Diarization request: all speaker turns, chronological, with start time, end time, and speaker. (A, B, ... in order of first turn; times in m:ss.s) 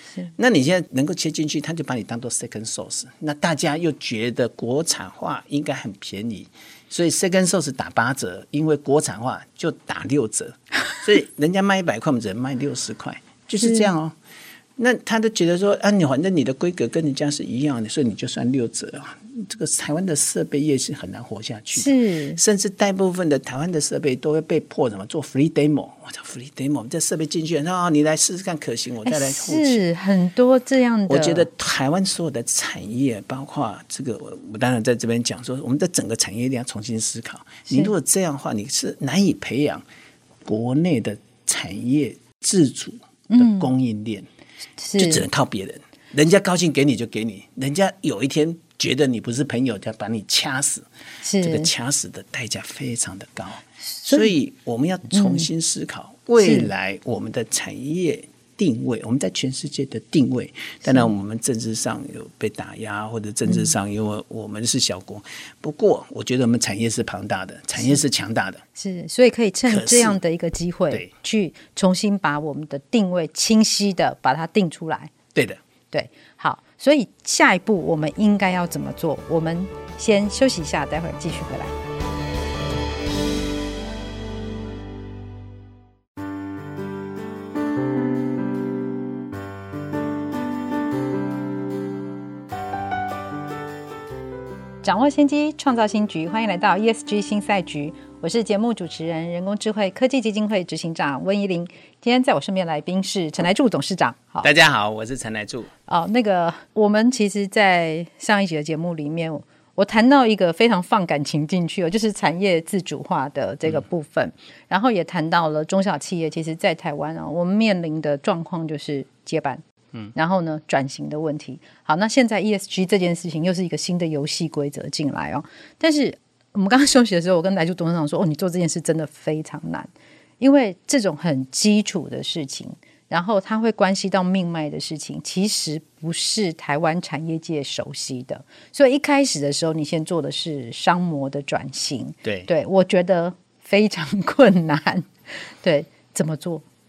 0:00.4-0:14.2 A
0:13.6-0:13.9 B
0:14.8-0:29.8 A
0:21.7-0:22.4 B
0:29.0-0:31.5 B
0:31.1-0:39.8 A
0:40.4-0:44.3 A
0:43.3-0:43.7 B
0:44.8-0:45.2 B
0:45.0-0:50.8 A
0:51.2-0:51.7 B
0:51.4-1:08.6 A
0:54.0-0:54.3 B
0:55.1-0:55.5 B
0:56.4-0:56.7 B
1:00.8-1:01.1 B
1:03.5-1:03.7 B
1:08.8-1:15.1 B
1:09.6-1:10.2 A
1:15.3-1:15.6 A
1:15.9-1:21.7 B
1:34.8-1:44.5 B
1:44.4-1:45.7 A
1:45.9-1:59.6 B
2:00.1-2:25.1 B
2:22.2-2:22.5 A
2:25.6-2:26.6 B